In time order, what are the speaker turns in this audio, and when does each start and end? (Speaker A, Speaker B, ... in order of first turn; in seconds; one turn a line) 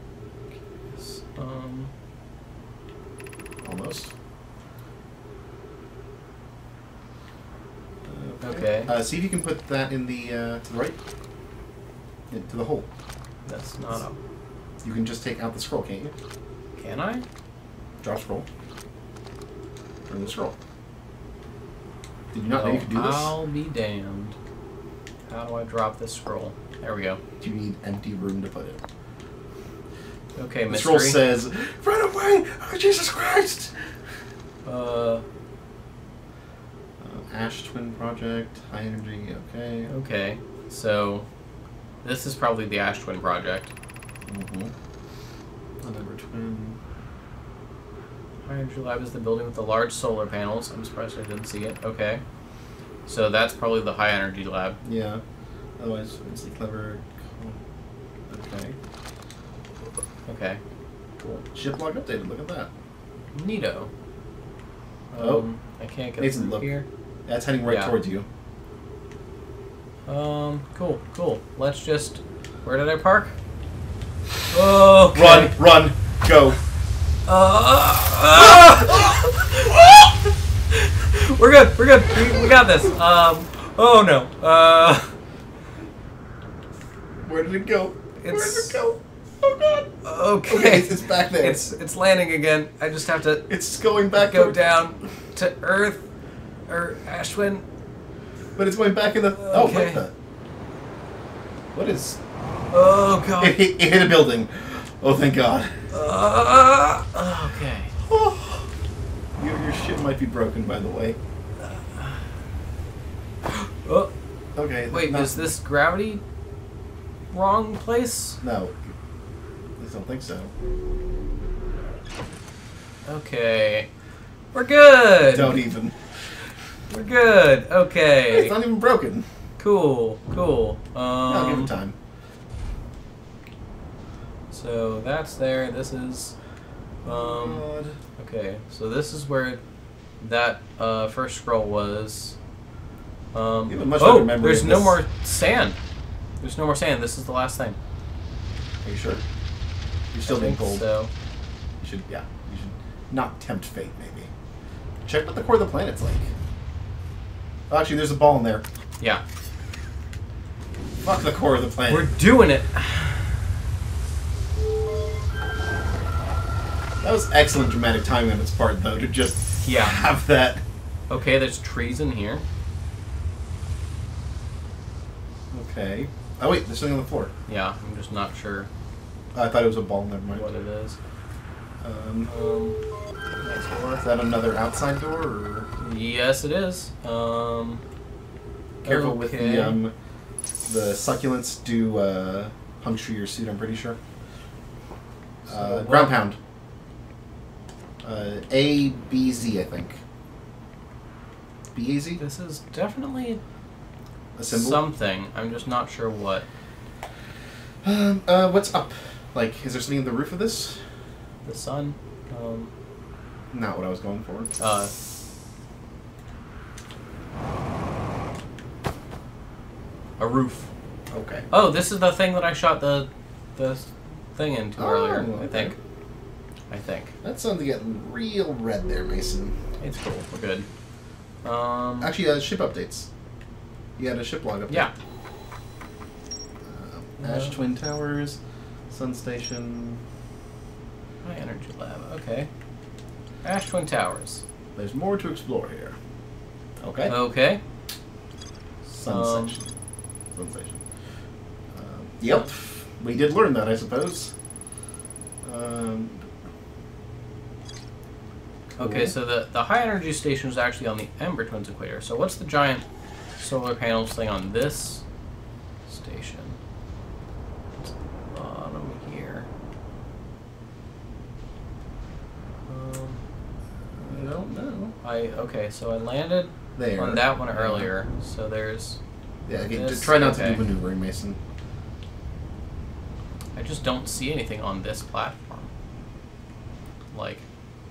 Speaker A: 0.9-1.9
Speaker B: 3.6-4.1
Speaker B: 8.0-10.9
Speaker A: 8.4-8.9
Speaker B: 12.3-12.9
Speaker A: 13.4-14.2
Speaker B: 14.8-16.1
Speaker A: 16.8-17.2
Speaker B: 18.0-18.4
Speaker B: 20.0-20.6
Speaker B: 22.3-23.3
Speaker A: 22.5-24.4
Speaker A: 25.3-27.2
Speaker B: 27.4-28.8
Speaker A: 30.4-31.2
Speaker B: 30.7-33.9
Speaker A: 34.6-35.2
Speaker B: 37.0-39.9
Speaker A: 39.9-41.3
Speaker A: 42.0-43.7
Speaker B: 44.2-44.7
Speaker B: 45.8-46.8
Speaker A: 48.4-52.2
Speaker A: 53.0-54.8
Speaker B: 54.8-55.2
Speaker B: 55.8-57.6
Speaker B: 58.3-58.8
Speaker A: 60.2-60.6
Speaker B: 61.2-62.7
Speaker A: 63.3-63.9
Speaker A: 65.1-66.8
Speaker B: 65.2-65.4
Speaker B: 66.2-66.7
Speaker B: 67.2-68.2
Speaker A: 67.7-67.9
Speaker A: 70.1-73.3
Speaker A: 74.5-75.6
Speaker B: 75.1-76.6
Speaker A: 77.3-80.0
Speaker A: 80.7-85.1
Speaker B: 87.2-89.9
Speaker A: 88.2-88.8
Speaker A: 90.0-93.5
Speaker B: 90.5-91.7
Speaker B: 93.5-94.6
Speaker A: 94.1-96.0
Speaker A: 96.7-97.6
Speaker B: 98.5-100.1
Speaker A: 99.4-100.0
Speaker B: 101.7-102.2
Speaker A: 102.7-103.6
Speaker B: 103.4-105.8
Speaker A: 105.9-108.0
Speaker B: 108.0-108.7
Speaker B: 109.4-111.2
Speaker A: 111.6-112.3
Speaker A: 113.5-114.1
Speaker B: 114.5-115.5
Speaker A: 114.9-116.2
Speaker A: 117.3-118.4
Speaker B: 118.4-118.9
Speaker B: 119.8-120.5
Speaker A: 123.0-123.9
Speaker A: 124.5-125.6
Speaker B: 125.3-126.0
Speaker A: 126.9-128.5
Speaker B: 128.3-129.3
Speaker A: 129.6-131.7
Speaker B: 131.3-132.0
Speaker A: 134.5-136.3
Speaker A: 137.0-137.7
Speaker B: 137.0-138.0
Speaker A: 138.2-139.6
Speaker A: 140.2-142.4
Speaker A: 143.3-145.8
Speaker B: 143.7-145.0
Speaker A: 146.4-147.8
Speaker B: 148.8-149.2
Speaker B: 150.1-150.8
Speaker A: 150.2-151.1
Speaker B: 151.8-154.3
Speaker B: 155.0-156.3
Speaker B: 157.7-158.6
Speaker B: 161.0-162.1
Speaker A: 161.9-163.4
Speaker B: 167.0-170.6
Speaker A: 169.6-170.0
Speaker A: 171.1-172.4
Speaker B: 175.5-177.3
Speaker A: 177.5-178.7
Speaker B: 179.3-180.5
Speaker A: 180.3-181.0
Speaker B: 181.8-182.3
Speaker A: 182.2-182.8
Speaker A: 183.4-184.0
Speaker B: 184.0-185.7
Speaker A: 185.8-187.8
Speaker A: 188.8-189.8
Speaker B: 188.8-189.9
Speaker B: 190.7-194.0
Speaker A: 195.5-196.2
Speaker B: 195.5-196.4
Speaker B: 198.0-200.0
Speaker B: 201.7-202.2
Speaker A: 202.2-203.4
Speaker B: 204.3-204.8
Speaker A: 204.5-206.5
Speaker B: 207.8-210.8
Speaker A: 211.4-212.7
Speaker B: 213.5-214.5
Speaker A: 214.6-214.9
Speaker A: 220.2-220.7
Speaker B: 221.1-221.5
Speaker A: 221.5-225.8
Speaker B: 224.8-225.7
Speaker A: 226.7-227.1
Speaker B: 227.2-229.5
Speaker A: 229.8-230.7
Speaker A: 231.4-232.1
Speaker B: 232.0-233.1
Speaker B: 234.0-234.9
Speaker B: 236.6-238.4
Speaker A: 237.2-237.6
Speaker B: 238.9-240.0
Speaker A: 241.2-242.5
Speaker A: 243.4-244.4
Speaker B: 244.8-246.0
Speaker B: 246.8-247.1
Speaker A: 247.0-247.6
Speaker A: 248.9-249.6
Speaker B: 249.0-249.6
Speaker B: 250.3-250.8
Speaker B: 251.7-254.3
Speaker B: 255.4-256.2
Speaker B: 258.8-259.1
Speaker A: 258.8-262.8
Speaker A: 263.4-265.0
Speaker A: 265.9-266.6
Speaker A: 267.8-269.5
Speaker A: 272.7-273.2
Speaker B: 274.0-274.9
Speaker A: 275.0-279.0
Speaker B: 276.8-277.9
Speaker B: 279.4-281.4
Speaker A: 279.6-280.6
Speaker A: 283.5-285.7
Speaker A: 287.1-287.4